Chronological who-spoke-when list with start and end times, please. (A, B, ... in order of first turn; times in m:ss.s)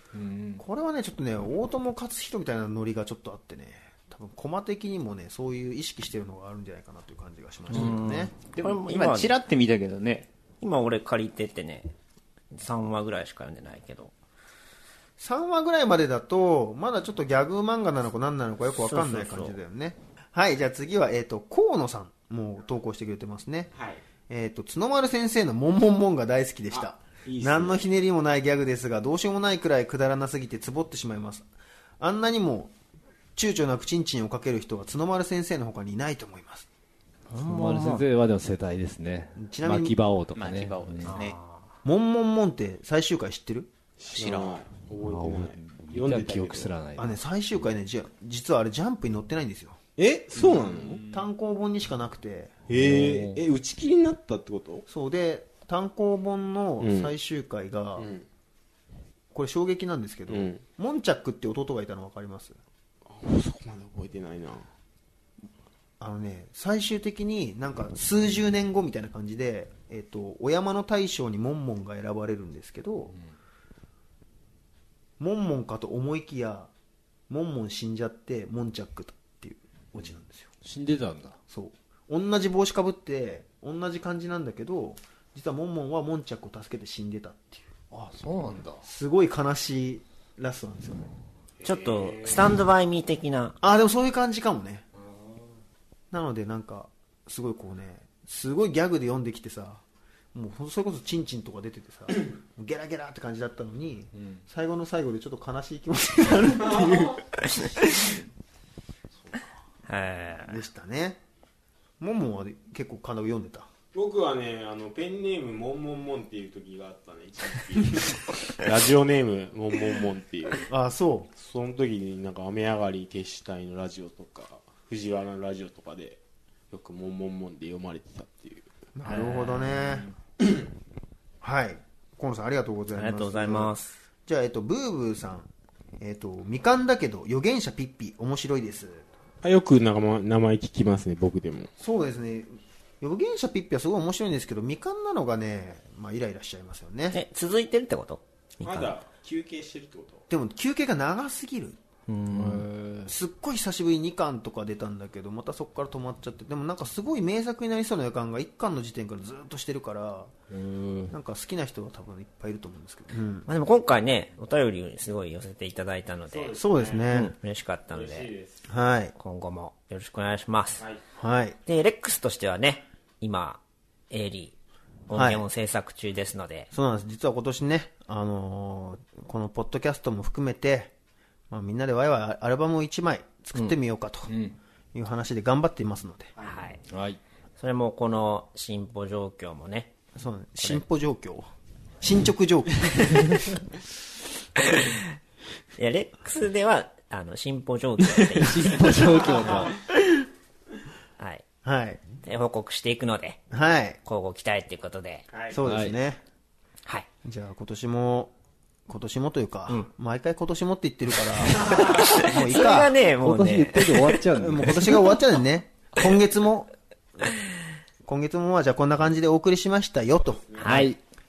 0:00.1-0:00.6 A
0:00.6-0:08.3 B
0:07.7-0:09.3 C
0:08.6-0:10.3 D
0:10.6-0:11.9 C
0:12.5-0:14.1 C
0:15.2-0:23.7 B
0:18.8-0:19.6 C
0:23.7-0:24.0 E
0:24.3-0:31.5 B
0:26.7-0:27.8 E
0:32.0-0:32.7 B
0:33.4-0:36.7 B
0:37.3-0:38.0 C
0:37.4-0:41.2 A
0:39.4-0:40.0 B
0:40.4-0:41.4 D
0:41.0-0:41.4 C
0:41.8-0:43.7 B
0:44.0-0:46.7 E
0:44.1-0:44.6 D
0:45.0-0:47.2 A
0:47.0-0:49.8 B
0:50.0-0:51.0 E
0:50.3-0:52.5 B
0:52.7-0:54.8 E
0:52.7-0:53.4 A
0:54.9-0:58.1 B
0:56.8-0:57.1 E
0:58.0-0:58.2 E
0:59.3-1:02.6 B
1:00.3-1:00.6 E
1:03.1-1:04.7 E
1:06.0-1:13.2 B
1:15.2-1:16.7 B
1:17.3-1:20.5 B
1:20.6-1:21.4 A
1:21.5-1:27.7 B
1:27.9-1:28.8 A
1:28.8-1:31.1 B
1:31.6-1:32.5 E
1:31.6-1:33.6 C
1:33.6-1:34.8 B
1:36.1-1:39.8 B
1:40.3-1:47.9 B
1:44.2-1:44.4 A
1:46.6-1:47.1 E
1:49.9-1:50.6 C
1:50.5-1:51.2 B
1:52.0-1:53.7 B
1:53.9-2:00.7 E
2:00.7-2:01.3 B
2:01.4-2:06.2 E
2:06.7-2:08.7 E
2:09.0-2:10.1 B
2:09.0-2:09.6 C
2:11.4-2:15.5 B
2:13.0-2:13.9 C
2:16.0-2:19.1 B
2:19.4-2:21.7 E
2:21.8-2:27.2 B
2:27.1-2:29.0 C
2:28.6-2:30.2 E
2:30.3-2:31.8 B
2:32.1-2:32.7 C
2:32.3-2:33.2 A
2:33.1-2:40.3 B
2:40.5-2:41.2 A
2:41.1-2:43.5 B
2:43.5-2:46.6 C
2:46.3-2:47.0 E
2:46.5-2:47.3 B
2:47.1-2:48.3 C
2:47.9-2:48.6 E
2:48.7-2:49.1 B
2:49.2-2:50.8 C
2:51.2-2:51.6 B
2:51.7-2:53.6 C
2:54.1-2:54.5 C
2:55.1-2:56.7 C
2:55.1-2:55.4 B
2:56.7-3:00.9 B
3:01.5-3:04.3 B
3:04.3-3:04.6 A
3:04.9-3:06.3 B
3:06.4-3:06.8 C
3:06.9-3:07.2 A
3:07.6-3:09.9 C
3:10.2-3:11.5 B
3:12.0-3:13.6 B
3:15.8-3:19.0 C
3:18.4-3:19.7 A
3:21.2-3:21.4 C
3:21.6-3:22.0 B
3:22.2-3:23.4 C
3:23.5-3:24.0 B
3:24.0-3:25.2 C
3:25.3-3:25.6 E
3:25.5-3:26.2 B
3:25.7-3:26.0 A
3:27.2-3:28.3 B
3:28.9-3:33.0 B
3:31.7-3:31.9 E
3:31.7-3:34.1 C
3:33.2-3:35.2 A
3:34.3-3:36.7 B
3:38.0-3:40.6 B
3:40.6-3:41.0 C
3:40.6-3:41.0 A